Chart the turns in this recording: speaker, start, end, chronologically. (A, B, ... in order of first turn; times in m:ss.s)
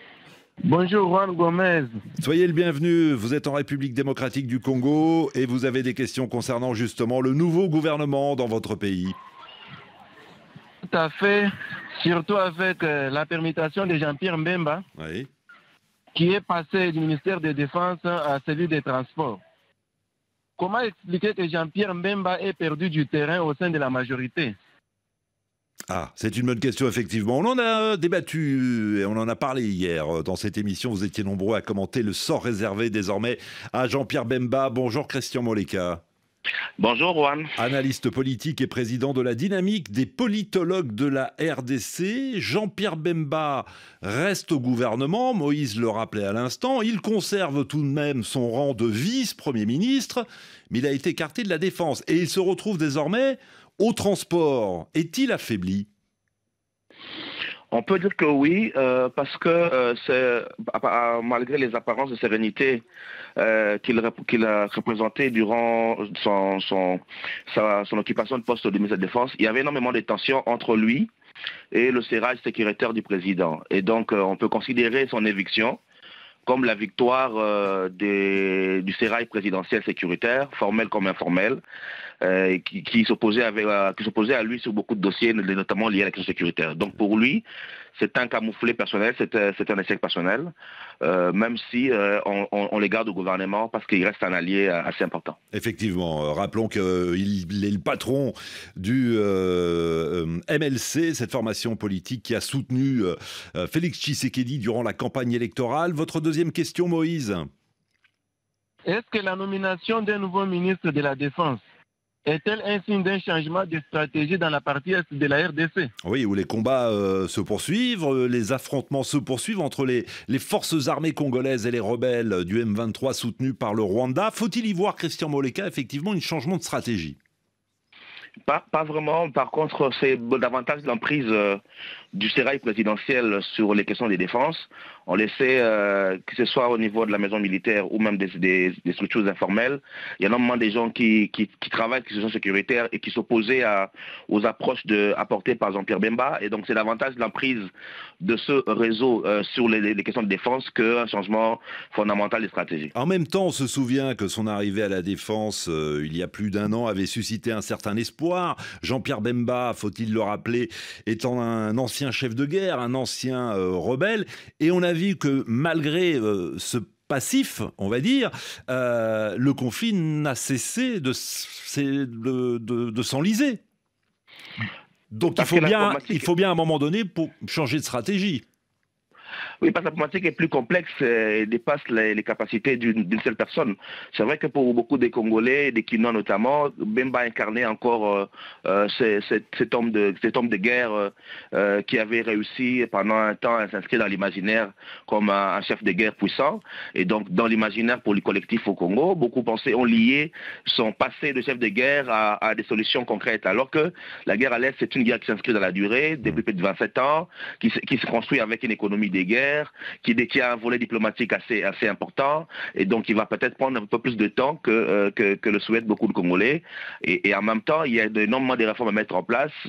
0:00.6-0:02.0 A
0:02.2-0:09.2 B
0:10.8-0:14.8 A
0:15.0-0:15.3 B
0:16.2-0:19.4 A
0:20.6-0:24.6 A
0:25.9-0:36.0 B
0:36.8-0:37.5 C
0:37.6-0:55.9 B
0:57.7-1:02.8 C
1:03.4-1:11.1 C
1:11.7-1:15.8 C
1:16.4-1:21.6 C
1:22.2-1:27.4 C
1:28.0-1:35.4 C
1:35.5-1:47.5 B
1:48.9-1:51.6 A
1:52.3-1:55.9 A
1:56.0-2:07.2 B
2:08.5-2:11.6 C
2:12.1-2:27.7 C
2:28.2-2:32.9 C
2:32.9-2:53.6 B
2:55.1-2:58.4 B
2:55.4-2:56.3 C
2:59.6-3:39.5 C